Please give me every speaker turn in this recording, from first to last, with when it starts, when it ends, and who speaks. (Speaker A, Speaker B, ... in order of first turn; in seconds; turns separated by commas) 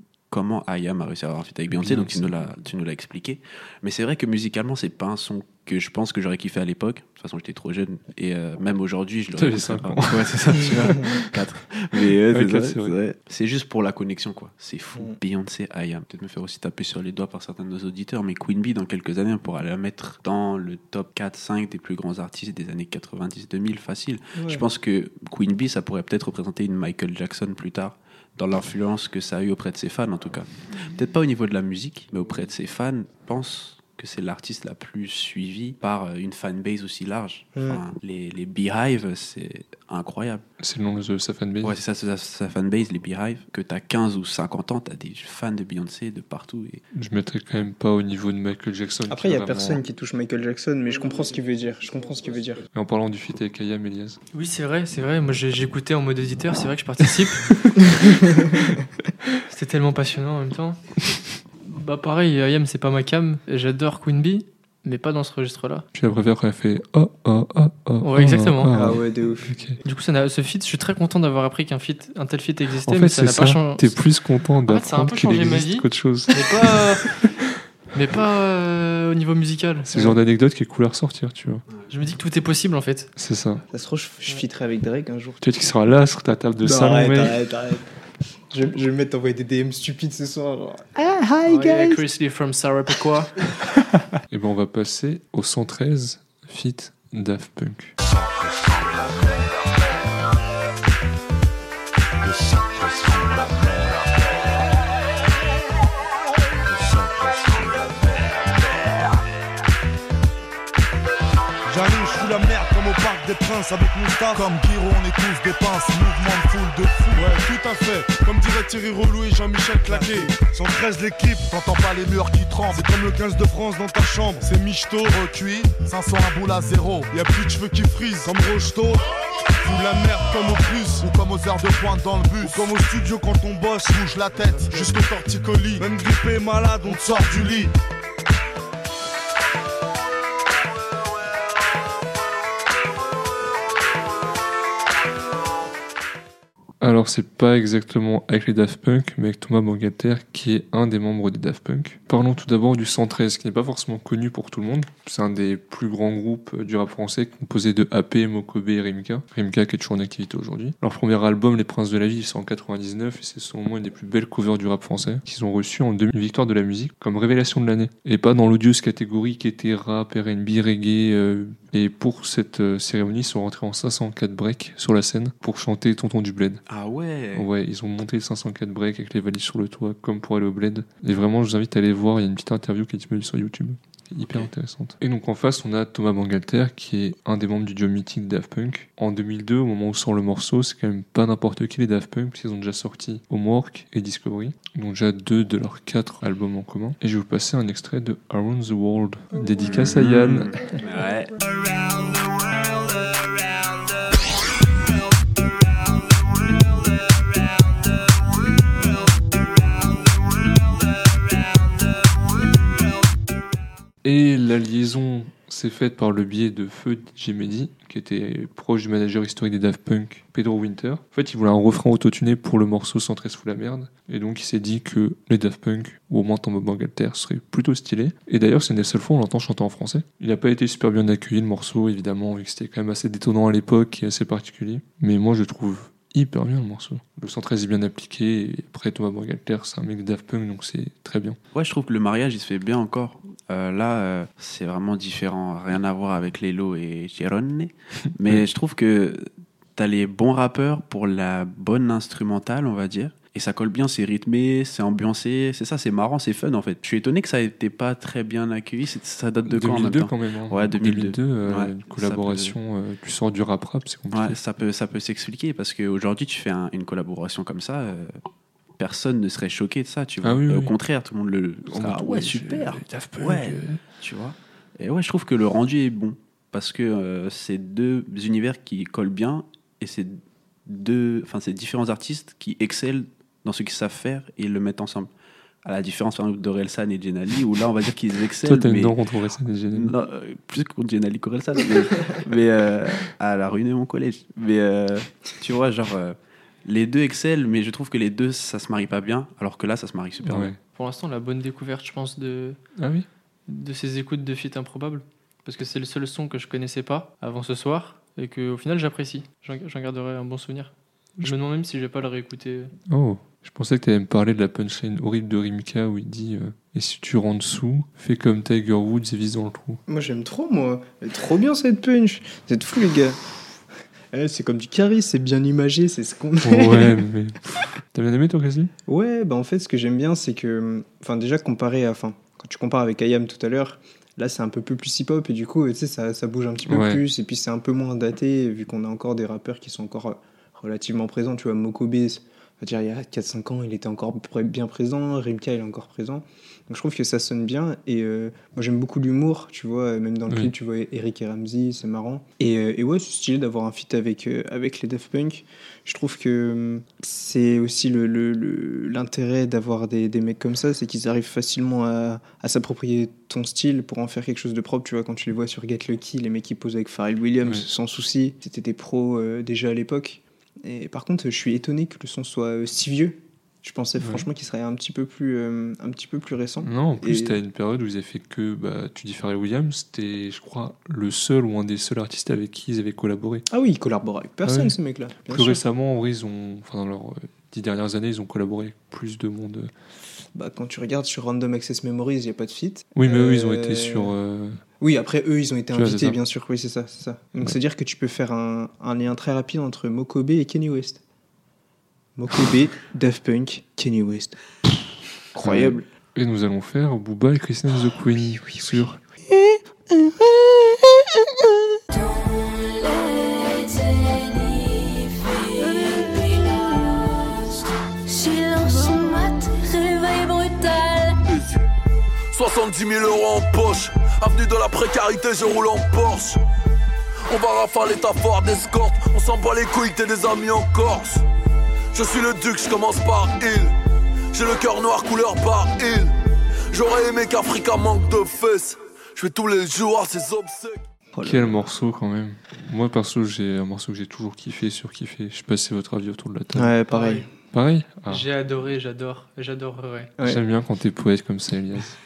Speaker A: 0.3-40.4, Speaker B: 1.7-2.3, Speaker B: 9.3-11.4, Speaker B: 11.9-12.9, Speaker C: 24.4-24.6, Speaker C: 37.5-37.8, Speaker B: 40.6-41.8, Speaker A: 41.6-46.8, Speaker B: 46.9-49.8, Speaker C: 49.1-52.6, Speaker B: 52.7-54.2, Speaker D: 54.3-58.1, Speaker D: 59.5-60.8, Speaker D: 61.6-65.8, Speaker B: 65.9-69.8, Speaker D: 68.0-68.7, Speaker C: 68.7-69.5, Speaker D: 69.8-74.0, Speaker B: 72.9-77.3, Speaker D: 74.7-77.2, Speaker D: 77.9-80.1, Speaker B: 79.9-81.6, Speaker D: 81.9-83.1, Speaker B: 83.2-83.6, Speaker C: 83.7-85.4, Speaker B: 85.4-87.4, Speaker C: 86.6-87.9, Speaker C: 88.5-92.0, Speaker D: 91.4-93.4, Speaker B: 94.3-97.9, Speaker E: 111.7-129.0, Speaker E: 129.6-137.7, Speaker B: 146.8-176.6, Speaker A: 176.7-177.5, Speaker B: 177.3-200.6, Speaker A: 199.6-201.3, Speaker B: 214.0-241.4, Speaker A: 241.5-262.5, Speaker B: 259.4-264.4, Speaker A: 264.1-268.1, Speaker A: 268.8-285.1, Speaker B: 270.2-270.7, Speaker B: 271.7-273.8, Speaker A: 285.6-288.9, Speaker B: 288.4-289.9, Speaker A: 289.7-300.5, Speaker B: 300.2-300.6, Speaker D: 300.7-302.6, Speaker B: 302.8-303.1, Speaker D: 303.5-312.7, Speaker B: 312.9-319.8, Speaker C: 319.9-323.2, Speaker C: 324.1-327.0, Speaker B: 326.4-328.7, Speaker C: 328.9-377.4, Speaker B: 336.7-337.0, Speaker B: 374.0-374.2, Speaker B: 376.6-383.4, Speaker C: 383.5-385.6, Speaker B: 384.4-384.8, Speaker B: 385.3-389.7, Speaker C: 390.3-394.1, Speaker B: 392.9-394.6, Speaker C: 394.8-401.0, Speaker B: 395.7-396.2, Speaker C: 402.2-404.4, Speaker C: 405.4-405.8, Speaker B: 405.4-409.0, Speaker C: 408.4-411.0, Speaker F: 411.9-421.2, Speaker G: 421.2-421.6, Speaker G: 422.3-426.4, Speaker G: 427.3-431.2, Speaker G: 431.9-433.7, Speaker G: 434.3-436.1, Speaker G: 436.7-440.8, Speaker C: 441.1-441.6, Speaker B: 441.2-446.7, Speaker C: 446.5-447.3, Speaker D: 446.9-447.2, Speaker B: 447.5-448.2, Speaker D: 448.1-450.1, Speaker B: 450.2-452.0